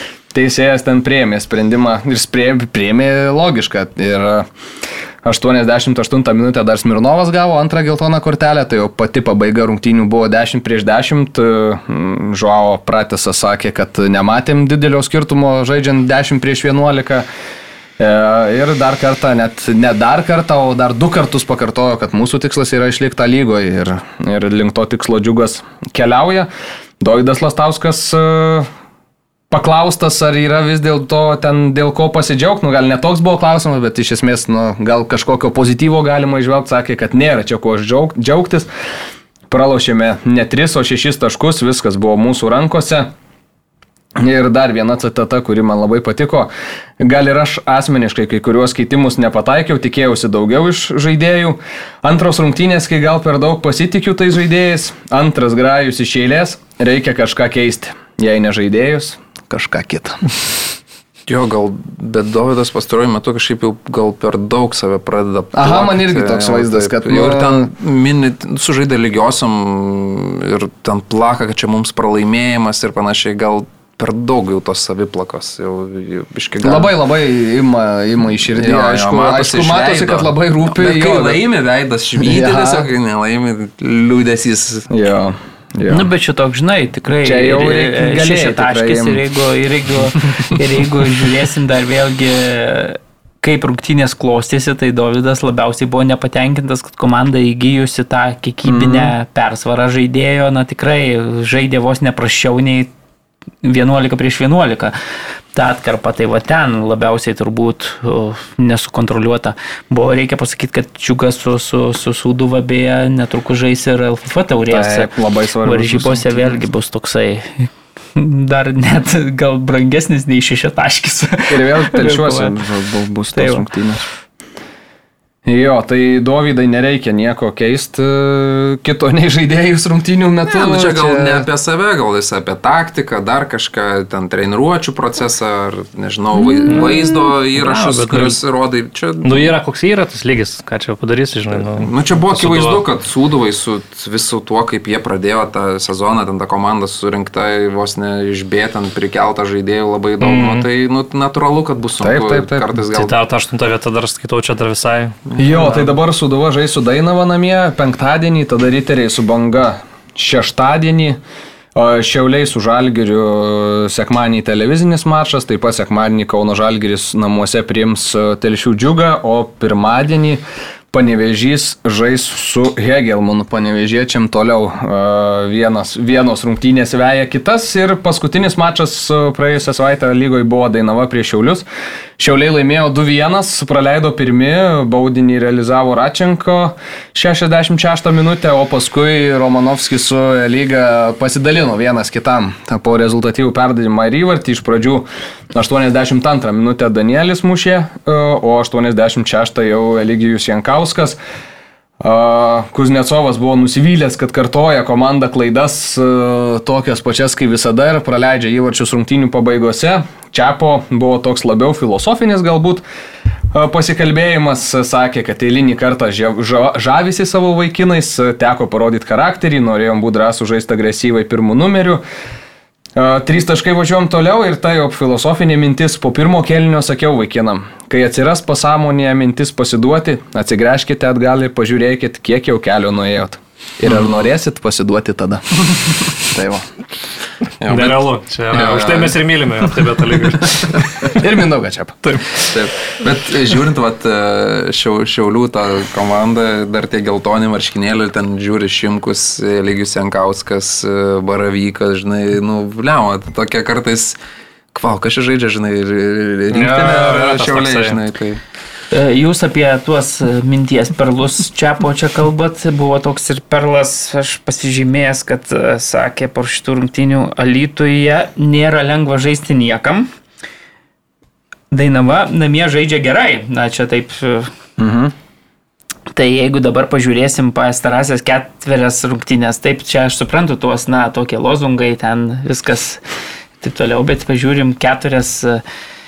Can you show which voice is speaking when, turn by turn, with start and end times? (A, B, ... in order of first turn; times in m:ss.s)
0:00.3-0:04.4 A
0:05.2-0:17.2 A
0:18.0-0:26.5 A
0:27.0-0:28.7 A
0:29.5-0:38.7 A
0:39.5-0:43.1 A
0:44.2-1:00.2 A
1:01.3-1:16.9 B
1:05.5-1:07.7 A
1:16.6-1:21.4 A
1:18.6-1:24.9 B
1:22.2-1:22.9 A
1:24.9-1:26.0 A
1:25.9-1:42.9 C
1:27.2-1:29.2 A
1:38.6-1:39.1 A
1:43.6-1:45.0 C
1:45.5-1:55.1 C
1:54.7-1:56.6 A
1:55.6-2:02.6 C
2:01.5-2:04.0 A
2:03.3-2:03.6 C
2:05.4-2:11.4 A
2:10.5-2:19.5 B
2:16.6-2:18.4 D
2:19.2-2:22.8 D
2:21.5-2:33.2 B
2:30.2-2:30.7 D
2:32.0-2:32.7 A
2:32.9-2:35.7 D
2:35.3-2:35.9 B
2:35.4-2:41.2 A
2:41.7-2:50.4 A
2:50.9-3:01.6 A
3:02.2-3:21.2 A
3:22.0-3:32.8 A
3:33.5-3:42.0 A
3:43.0-3:56.6 A
3:53.8-3:54.1 B
3:57.6-3:59.2 B
3:57.7-4:01.2 D
4:00.3-4:01.1 B
4:01.1-4:02.2 A
4:02.2-4:14.2 B
4:14.7-4:18.4 B
4:16.5-4:18.0 D
4:18.9-4:30.1 C
4:31.7-4:34.5 C
4:34.8-4:35.1 A
4:36.1-4:43.0 C
4:43.6-4:45.6 C